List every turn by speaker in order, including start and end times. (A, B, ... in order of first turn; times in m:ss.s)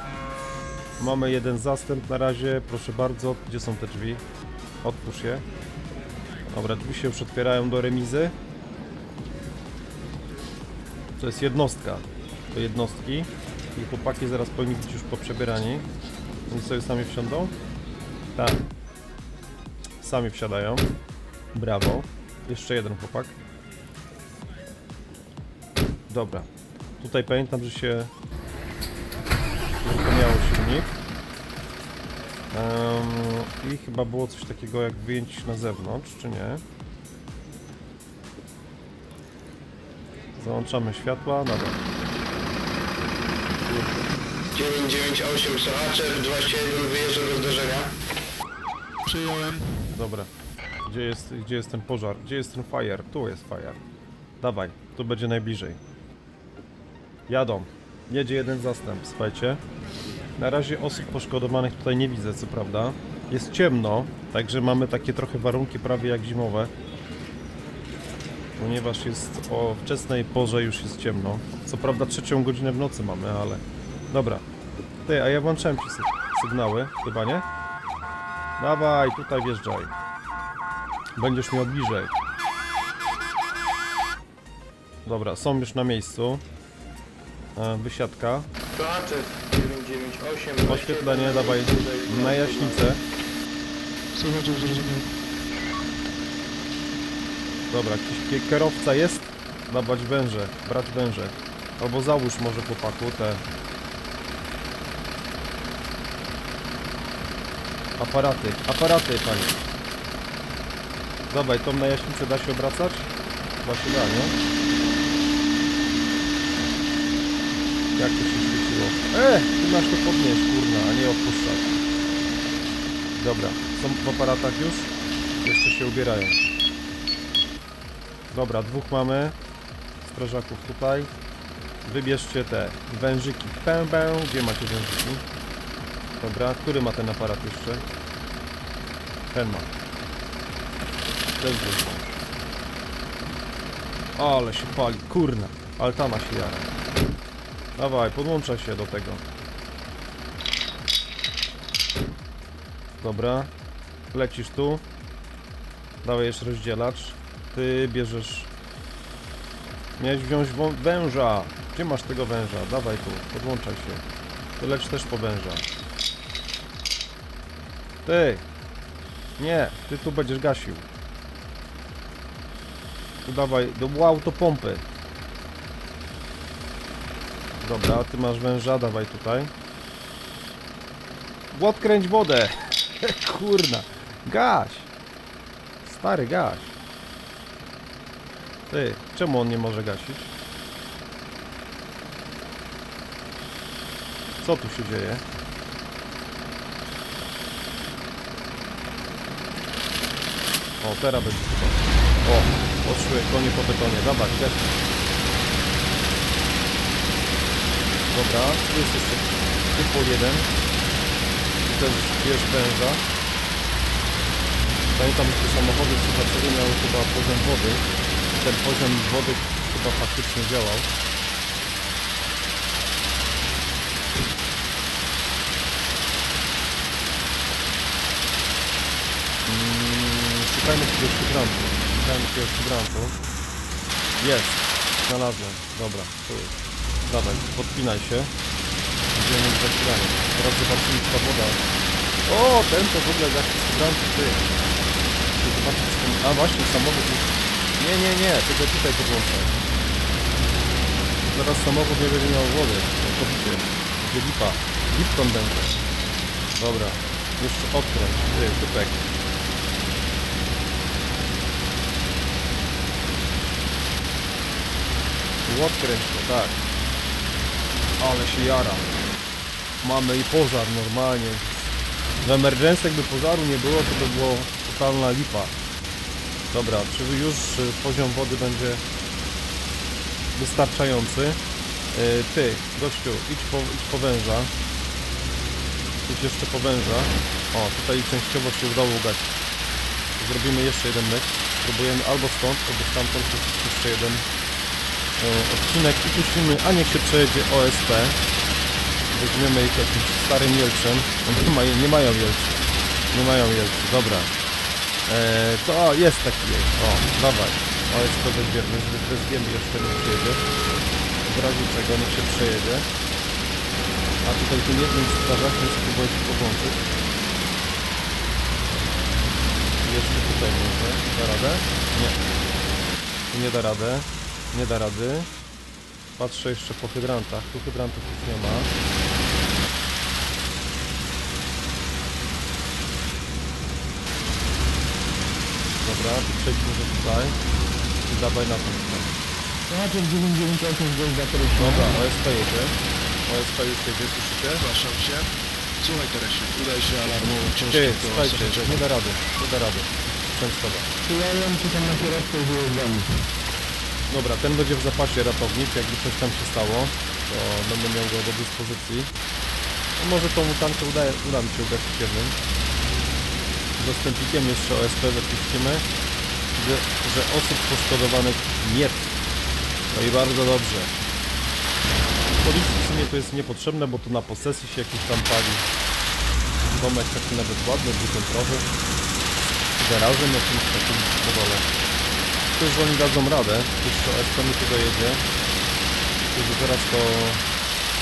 0:01.0-0:04.2 A
0:04.8-0:05.4 A
0:06.5-0:08.3 A
0:11.2-0:15.9 A
0:16.5-0:17.5 A
0:18.3-0:18.6 A
0:20.0-0:20.8 A
0:21.5-0:23.3 A
0:26.1-0:26.5 A
0:27.0-0:28.1 A
0:29.8-0:31.0 A
0:32.5-0:36.6 A
0:40.4-0:41.8 A
0:44.5-0:47.9 B
0:49.0-0:49.6 C
0:49.9-0:50.3 A
0:50.8-0:53.8 A
0:54.4-0:55.8 A
0:57.3-0:59.6 A
1:00.4-1:06.7 A
1:08.6-1:14.4 A
1:15.0-1:17.4 A
1:18.6-1:19.9 A
1:21.2-1:22.1 A
1:25.0-1:26.4 A
1:27.6-1:28.5 A
1:28.7-1:33.0 B
1:30.6-1:33.0 A
1:34.1-1:35.1 C
1:37.7-1:43.4 A
1:48.0-1:49.6 A
1:51.3-1:53.1 A
1:53.6-1:54.3 A
1:58.0-2:01.7 A
2:03.2-2:04.9 A
2:05.4-2:06.4 A
2:08.3-2:09.3 A
2:10.0-2:11.1 A
2:11.8-2:15.2 A
2:16.2-2:17.8 A
2:19.3-2:19.7 A
2:21.4-2:22.2 A
2:24.2-2:26.7 A
2:27.8-2:29.2 A
2:33.0-2:33.5 A
2:34.1-2:34.8 A
2:36.0-2:38.5 A
2:40.0-2:44.0 A
2:44.6-2:45.6 A
2:48.0-2:48.4 A
2:49.4-2:50.8 A
2:53.2-2:54.8 A
2:57.6-2:59.5 A
3:01.5-3:04.9 A
3:05.8-3:06.7 A
3:08.7-3:10.3 A
3:14.4-3:15.2 A
3:20.8-3:24.8 A
3:28.1-3:30.5 A
3:31.6-3:33.0 A
3:34.9-3:40.9 A
3:49.4-3:53.1 A
3:54.2-3:56.6 A
3:57.1-3:58.3 A
3:59.1-4:01.6 A
4:02.3-4:04.5 A
4:05.4-4:09.6 A
4:11.3-4:15.8 A
4:16.6-4:19.0 A
4:25.4-4:26.6 A
4:28.0-4:28.8 A
4:29.8-4:31.6 A
4:32.2-4:35.5 A
4:36.5-4:38.8 A
4:40.3-4:41.4 A
4:41.9-4:44.5 A
4:46.0-4:49.3 A
4:50.2-4:54.2 A
4:55.2-4:58.2 A
4:59.1-5:04.3 A
5:05.1-5:10.4 A
5:11.2-5:12.8 A
5:14.2-5:16.8 A
5:19.8-5:22.2 A
5:23.3-5:25.3 A
5:26.2-5:28.7 A
5:35.8-5:37.4 A
5:38.1-5:39.2 A
5:39.6-5:42.0 D
5:41.6-5:44.6 A
5:44.6-5:45.3 C
5:45.8-5:48.8 C
5:47.6-5:50.9 A
5:51.0-5:53.0 D
5:54.1-5:59.1 A
6:00.0-6:02.4 A
6:03.8-6:05.8 A
6:06.6-6:09.1 A
6:09.9-6:11.0 A
6:12.4-6:15.6 A
6:16.7-6:18.7 A
6:19.8-6:21.8 A
6:22.6-6:25.2 A
6:26.3-6:27.4 A